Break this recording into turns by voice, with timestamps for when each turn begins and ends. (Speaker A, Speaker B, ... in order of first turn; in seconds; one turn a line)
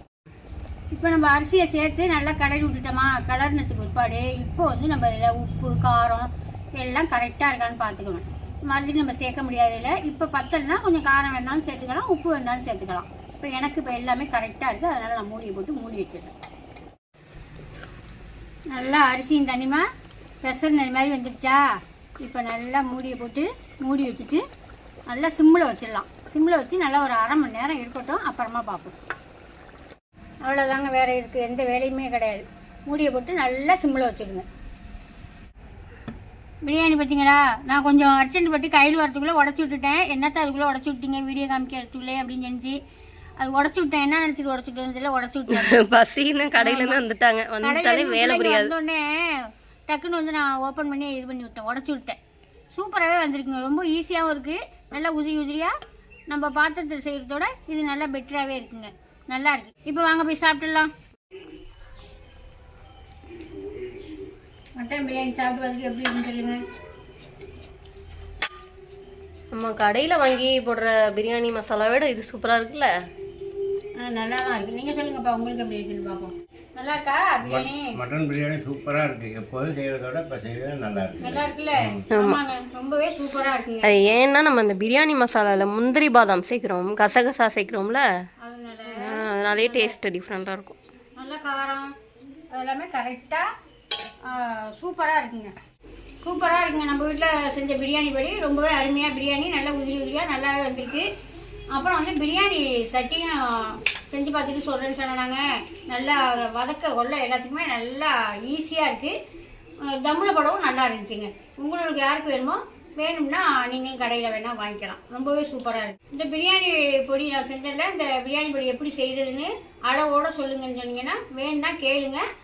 Speaker A: 0.9-16.3
Speaker A: 18.7-19.9
Speaker A: 20.4-21.7
Speaker A: 22.2-24.4
Speaker A: 25.1-28.9
Speaker A: 30.4-34.5
Speaker A: 36.6-42.8
Speaker A: 43.4-45.8
Speaker B: 45.5-48.7
Speaker A: 46.6-47.0
Speaker A: 47.6-52.2
Speaker A: 52.7-55.8
Speaker A: 56.3-60.9
Speaker A: 64.8-66.6
Speaker B: 69.5-72.9
Speaker A: 74.0-78.0
Speaker C: 77.4-82.0
Speaker A: 81.2-84.0
Speaker B: 82.1-82.4
Speaker B: 83.8-88.0
Speaker A: 88.4-89.9
Speaker B: 88.9-90.8
Speaker A: 91.2-91.9
Speaker A: 92.5-93.5
Speaker A: 94.2-95.5
Speaker A: 96.2-101.1
Speaker A: 101.7-109.1
Speaker A: 109.8-122.2